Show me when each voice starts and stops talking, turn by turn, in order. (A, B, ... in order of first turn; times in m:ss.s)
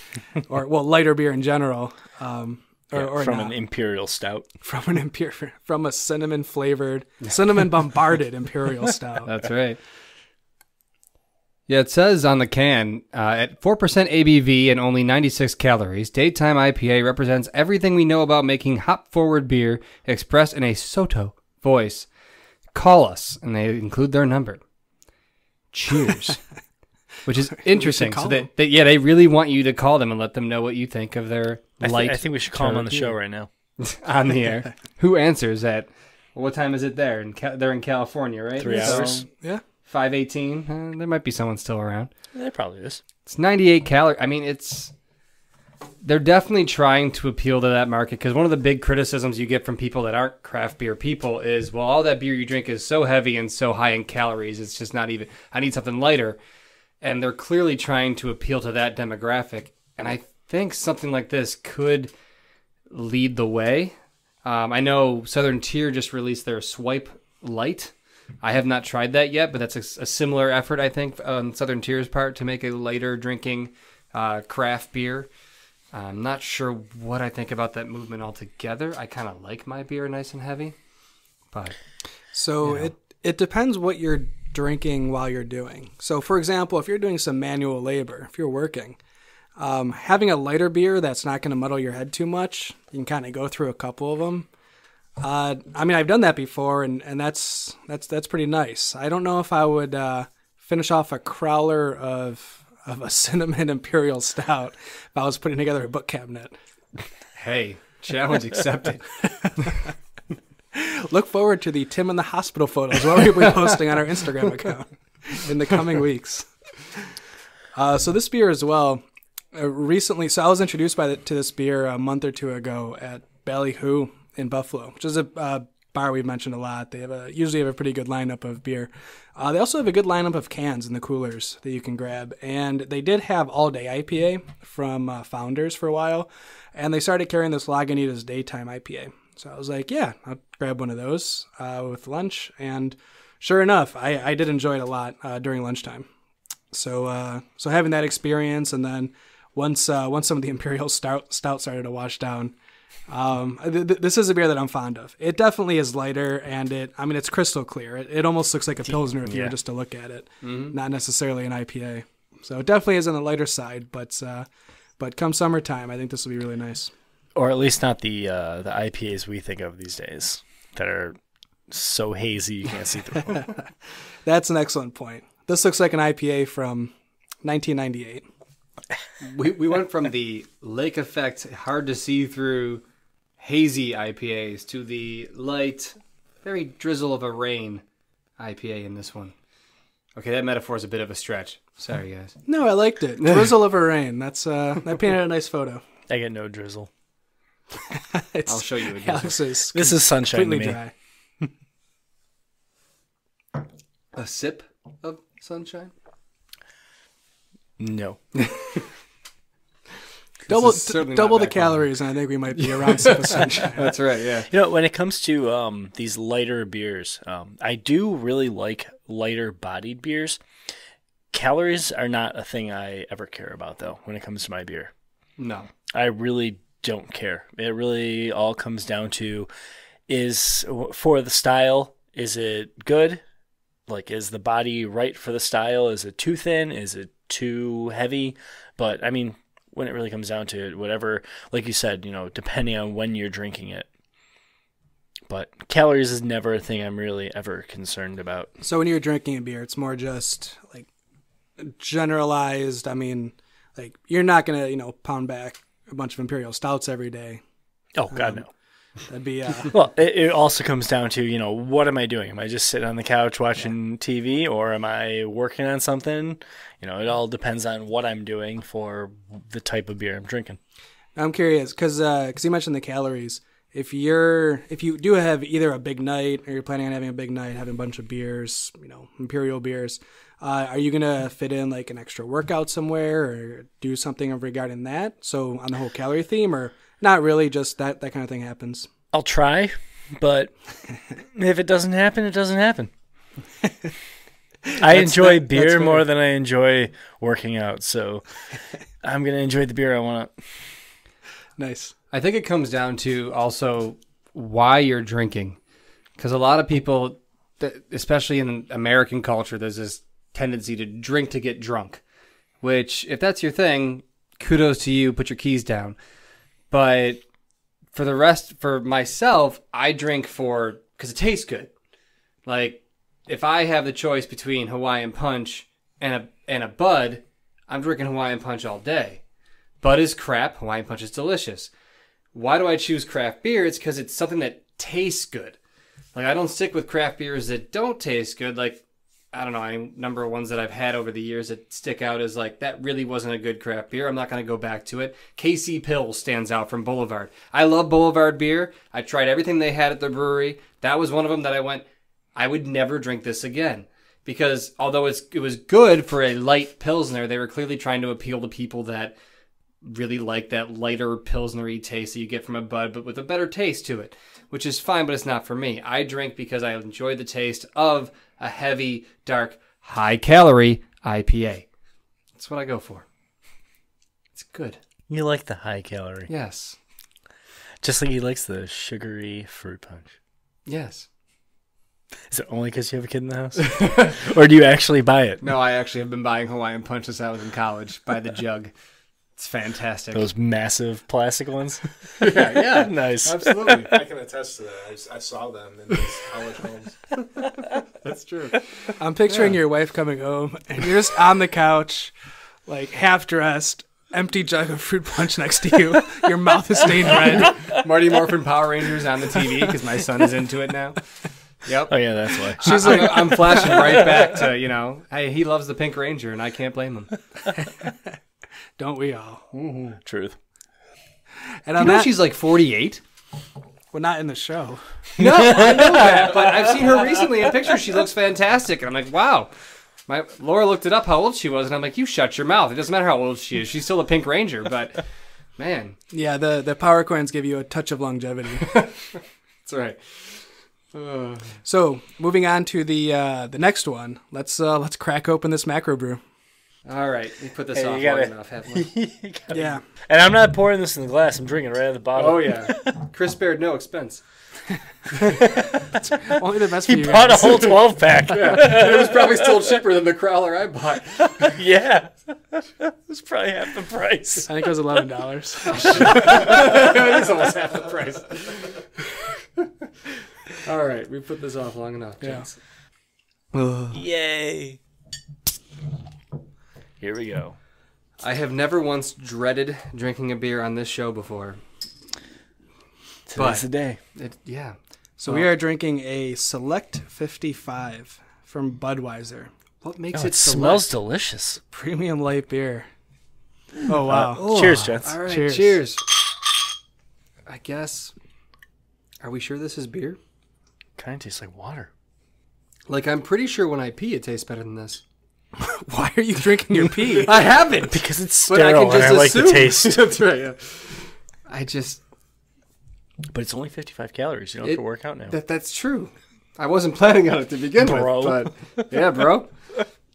0:00.5-0:03.6 A
0:02.9-0:04.5 B
0:04.6-0:09.3 A
0:09.2-0:09.8 C
0:11.7-0:22.1 C
0:22.7-0:24.6 C
0:25.7-0:26.4 C
0:27.2-0:33.1 C
0:27.6-0:28.5 A
0:31.8-0:33.5 B
0:33.8-0:39.2 C
0:38.6-0:39.2 B
0:38.7-0:39.6 A
0:39.9-0:42.1 C
0:42.3-0:43.0 B
0:43.2-0:44.9 C
0:46.0-0:56.4 C
0:57.0-1:02.1 C
1:02.9-1:03.9 C
1:04.4-1:15.3 C
1:15.9-1:20.8 C
1:22.3-1:29.0 A
1:29.6-1:34.5 A
1:35.2-1:46.5 A
1:47.4-1:49.7 C
1:50.7-1:56.5 A
1:57.8-1:59.0 A
1:59.5-2:26.1 A
2:26.7-2:32.5 A
2:33.1-2:44.5 A
2:39.2-2:39.5 B
2:40.4-2:40.7 C
2:45.0-2:46.9 A
2:47.3-2:51.2 B
2:51.7-2:53.5 B
2:54.2-2:58.2 A
2:59.2-3:02.8 C
3:03.4-3:07.8 C
3:08.4-3:09.3 C
3:10.2-3:12.4 C
3:12.5-3:15.8 A
3:13.2-3:13.5 C
3:16.1-3:16.9 B
3:17.9-3:20.9 A
3:18.5-3:19.4 C
3:19.7-3:20.8 B
3:24.1-3:25.9 C
3:27.8-3:28.2 B
3:28.4-3:28.8 C
3:30.5-3:31.8 C
3:30.5-3:34.0 A
3:32.6-3:34.5 C
3:34.5-3:40.4 B
3:41.3-3:44.9 B
3:45.4-3:45.7 C
3:45.9-3:49.5 B
3:50.1-3:53.2 B
3:53.9-4:03.9 B
4:05.3-4:08.5 B
4:08.6-4:10.9 A
4:11.6-4:17.4 A
4:18.0-4:18.5 B
4:18.1-4:18.4 A
4:19.1-4:19.7 A
4:19.7-4:30.6 B
4:31.2-4:48.9 A
4:49.1-4:50.6 B
4:51.3-4:52.9 B
4:54.7-4:56.0 A
4:54.8-4:58.3 B
4:59.0-5:00.6 B
5:01.6-5:01.9 A
5:02.1-5:05.6 C
5:06.2-5:12.0 C
5:12.6-5:16.0 C
5:16.7-5:17.2 C
5:17.9-5:21.7 C
5:22.4-5:29.2 C
5:29.8-5:31.7 C
5:32.3-5:35.6 C
5:36.1-5:59.2 C
5:59.8-6:11.7 C
6:12.4-6:13.0 C
6:14.3-6:14.8 C
6:15.1-6:16.3 B
6:16.3-6:16.8 C
6:17.8-6:20.1 B
6:20.7-6:21.1 C
6:22.3-6:25.5 B
6:25.4-6:28.7 C
6:29.4-6:30.3 C
6:30.1-6:33.9 B
6:32.2-6:34.0 C
6:33.9-6:37.0 D
6:38.0-6:38.6 C
6:39.0-6:42.1 A
6:42.7-6:47.6 A
6:47.4-6:51.1 C
6:51.6-6:57.2 C
6:51.9-6:54.3 B
6:52.6-6:54.0 A
6:57.5-6:57.7 B
6:57.6-6:58.2 A
6:58.8-6:59.5 A
6:59.5-7:00.0 C
7:00.0-7:00.4 B
7:01.6-7:02.2 A
7:01.8-7:03.0 C
7:03.9-7:04.8 A
7:05.2-7:09.5 C
7:05.2-7:06.5 B
7:10.1-7:15.0 C
7:15.6-7:16.0 C
7:16.1-7:18.8 A
7:18.6-7:21.6 C
7:21.6-7:26.2 A
7:26.8-7:28.9 C
7:27.8-7:33.0 B
7:29.5-7:29.8 A
7:32.2-7:34.2 C
7:35.2-7:36.3 B
7:36.2-7:37.8 A
7:36.8-7:39.6 B
7:37.4-7:37.7 C
7:38.3-7:41.6 C
7:41.2-7:45.0 B
7:44.5-7:46.4 A
7:45.7-7:46.9 B
7:45.8-7:49.7 C
7:50.6-7:52.6 C
7:52.2-7:52.5 A
7:53.5-7:54.0 C
7:53.9-7:54.8 B
7:57.0-7:57.6 B
7:58.2-8:01.6 C
8:03.3-8:04.0 B
8:03.4-8:05.5 C
8:05.2-8:09.5 A
8:09.8-8:10.9 C
8:10.1-8:11.6 B
8:11.7-8:12.9 A
8:13.8-8:14.5 A
8:14.1-8:15.2 B
8:14.4-8:16.0 C
8:15.2-8:15.8 A
8:17.5-8:18.1 C
8:19.2-8:20.2 C
8:21.0-8:21.9 B
8:22.9-8:25.0 C
8:25.6-8:27.3 A
8:27.2-8:32.0 C
8:27.9-8:30.0 B
8:33.3-8:35.3 B
8:34.6-8:39.5 C
8:37.8-8:39.0 B